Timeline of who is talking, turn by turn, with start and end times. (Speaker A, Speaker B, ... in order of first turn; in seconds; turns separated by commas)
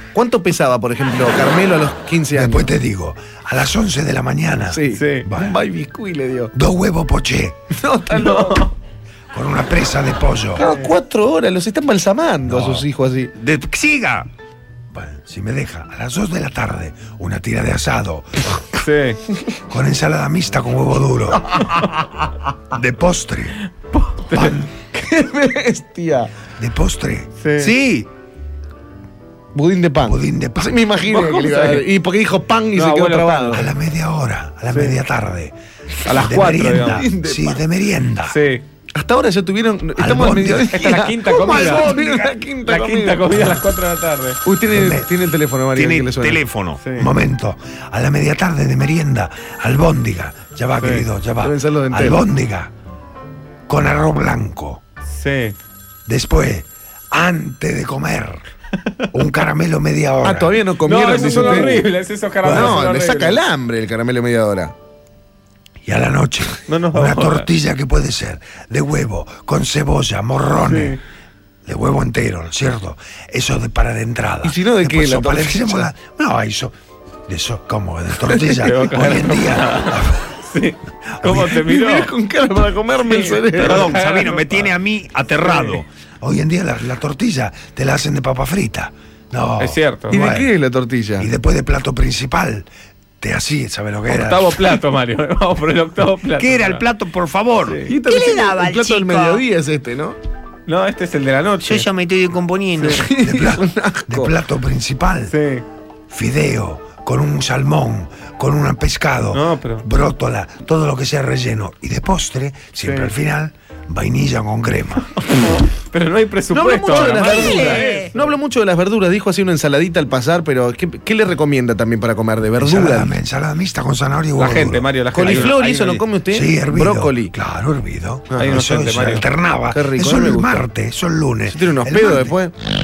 Speaker A: 0.1-2.7, Speaker B: 2.3-5.6, Speaker A: 4.7-6.5, Speaker C: 4.9-5.3, Speaker B: 6.5-7.6, Speaker A: 7.7-8.7, Speaker C: 8.1-8.7, Speaker B: 9.3-10.6, Speaker A: 10.5-13.3, Speaker C: 10.6-10.9, Speaker B: 12.5-12.8, Speaker D: 13.3-14.3, Speaker B: 14.9-18.6, Speaker C: 18.8-19.2, Speaker B: 19.7-21.6, Speaker A: 21.5-21.8, Speaker C: 21.6-21.9, Speaker B: 22.7-23.6, Speaker C: 23.9-24.6, Speaker B: 24.3-24.7, Speaker A: 24.8-26.3, Speaker B: 26.6-27.3, Speaker C: 27.4-27.8, Speaker D: 27.6-28.1, Speaker A: 29.5-33.7, Speaker B: 30.0-30.8, Speaker C: 31.1-31.9, Speaker C: 32.7-33.7, Speaker B: 33.5-35.5, Speaker C: 34.7-35.0, Speaker A: 36.0-37.6, Speaker C: 36.0-37.0, Speaker B: 36.1-38.4, Speaker C: 38.2-38.6, Speaker A: 38.9-43.6, Speaker B: 40.0-40.7, Speaker C: 40.2-44.4, Speaker A: 44.4-46.4, Speaker B: 44.7-45.1, Speaker D: 45.7-46.8, Speaker C: 46.8-47.1, Speaker B: 46.9-52.7, Speaker C: 50.8-51.1, Speaker A: 51.4-52.2, Speaker B: 53.7-54.8, Speaker C: 55.1-55.6, Speaker B: 56.1-58.4, Speaker B: 59.1-60.6, Speaker A: 60.2-61.9, Speaker C: 60.8-63.4, Speaker B: 61.2-61.9, Speaker B: 62.4-62.8, Speaker A: 62.4-64.7, Speaker B: 65.8-71.0, Speaker C: 66.6-67.5, Speaker C: 70.6-71.0, Speaker B: 71.6-76.7, Speaker A: 74.4-75.9, Speaker B: 77.3-80.3, Speaker A: 78.2-78.7, Speaker C: 78.6-82.1, Speaker B: 81.2-81.5, Speaker A: 81.3-83.9, Speaker C: 83.0-84.7, Speaker D: 83.5-85.8, Speaker C: 85.4-85.8, Speaker B: 86.2-90.5, Speaker C: 89.6-90.2, Speaker A: 90.1-91.3, Speaker B: 91.2-92.7, Speaker B: 93.2-94.6, Speaker C: 94.1-96.8, Speaker D: 96.3-97.9, Speaker C: 97.6-97.9, Speaker A: 97.8-100.2, Speaker E: 98.0-99.4, Speaker C: 100.7-101.9, Speaker E: 101.6-103.1, Speaker C: 102.8-103.1, Speaker A: 102.9-104.3, Speaker B: 103.2-105.3, Speaker C: 105.3-105.6, Speaker B: 106.1-115.2, Speaker C: 109.3-109.8, Speaker C: 112.8-113.1, Speaker C: 115.2-118.3, Speaker A: 116.5-123.1, Speaker E: 117.2-118.1, Speaker B: 122.6-125.4, Speaker C: 124.3-126.0, Speaker A: 125.1-127.3, Speaker B: 126.3-132.4, Speaker A: 128.3-128.6, Speaker C: 128.3-129.3, Speaker A: 129.7-130.7, Speaker A: 131.4-132.5